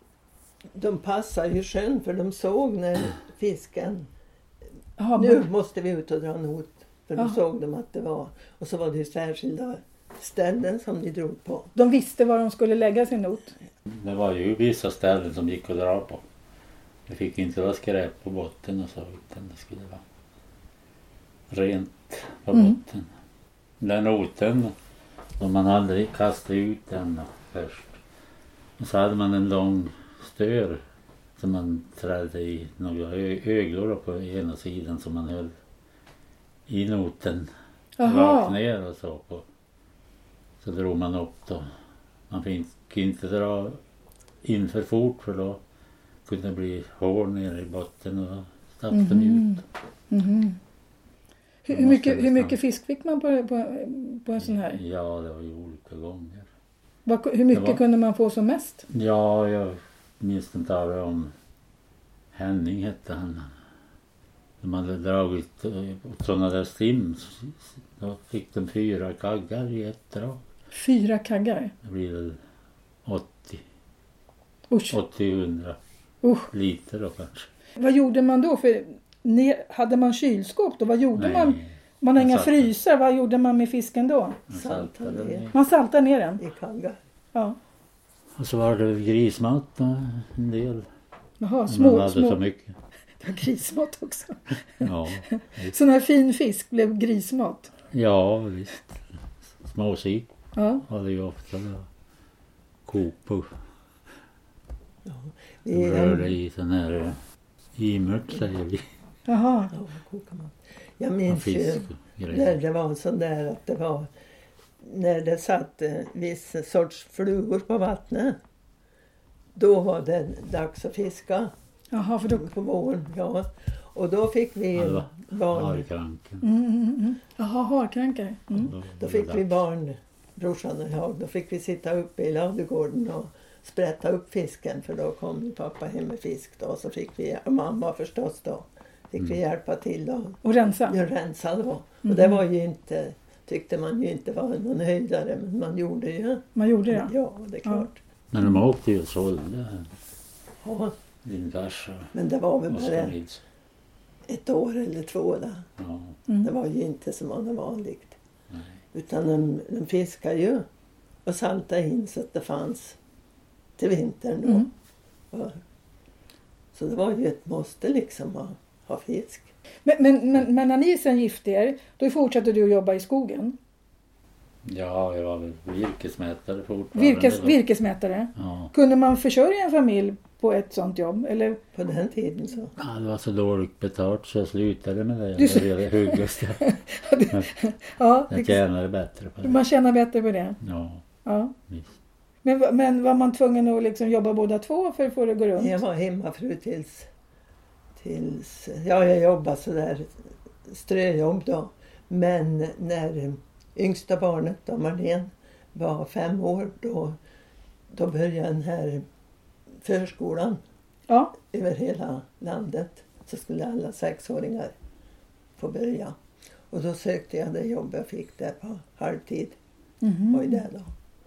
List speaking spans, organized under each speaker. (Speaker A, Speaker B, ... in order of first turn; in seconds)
Speaker A: 0.7-4.1, 5.2-11.7, 84.5-85.5, 86.4-87.0, 105.0-106.3, 109.7-114.1, 114.8-118.4, 119.5-121.5, 122.3-125.8, 129.0-148.0, 150.6-150.9, 152.1-153.2, 154.3-155.7, 156.4-158.2, 158.9-160.7, 161.2-163.0, 163.8-164.7, 165.3-165.6, 166.7-169.5, 181.7-182.7, 195.6-197.1, 197.9-207.2, 207.9-209.0, 209.8-210.6, 211.4-214.7, 215.6-216.2, 216.7-219.6, 220.3-220.9
Speaker B: 5.0-5.5, 11.7-13.5, 38.0-38.5, 48.9-50.6, 51.6-54.8, 57.0-58.9, 70.7-71.7, 74.7-75.0, 76.2-76.5, 77.8-84.4, 85.5-86.4, 91.4-92.4, 93.2-97.7, 100.5-100.8, 109.3-109.7, 121.9-122.5, 126.4-128.7, 140.4-141.0, 142.0-142.4, 146.5-147.1, 169.8-173.6, 176.9-181.6, 185.4-188.6, 189.4-190.6, 191.2-191.5, 192.4-195.8, 211.1-211.3, 220.0-220.6
Speaker C: 13.9-16.2, 17.1-20.0, 21.5-23.1, 23.8-24.7, 25.4-28.0, 28.8-30.8, 31.4-35.5, 36.7-37.5, 38.0-39.4, 40.6-41.7, 42.3-43.8, 44.4-45.6, 46.2-49.6, 51.7-52.6, 54.4-56.5, 57.5-57.8, 58.9-61.3, 62.3-63.5, 64.6-70.4, 71.8-72.4, 73.0-73.6, 74.9-75.8, 76.5-77.5, 81.2-82.7, 84.5-85.5, 88.3-90.9, 91.7-92.7, 94.8-95.7, 97.9-99.0, 99.6-101.9, 102.8-103.5, 105.7-107.2, 107.8-108.8, 111.3-112.6, 124.7-126.4, 128.6-129.5, 148.3-149.9, 151.2-152.1, 152.7-153.4, 155.8-156.2, 158.5-158.8, 174.6-177.6, 178.3-178.7, 182.8-186.6, 188.3-189.6, 190.6-191.0, 191.7-191.9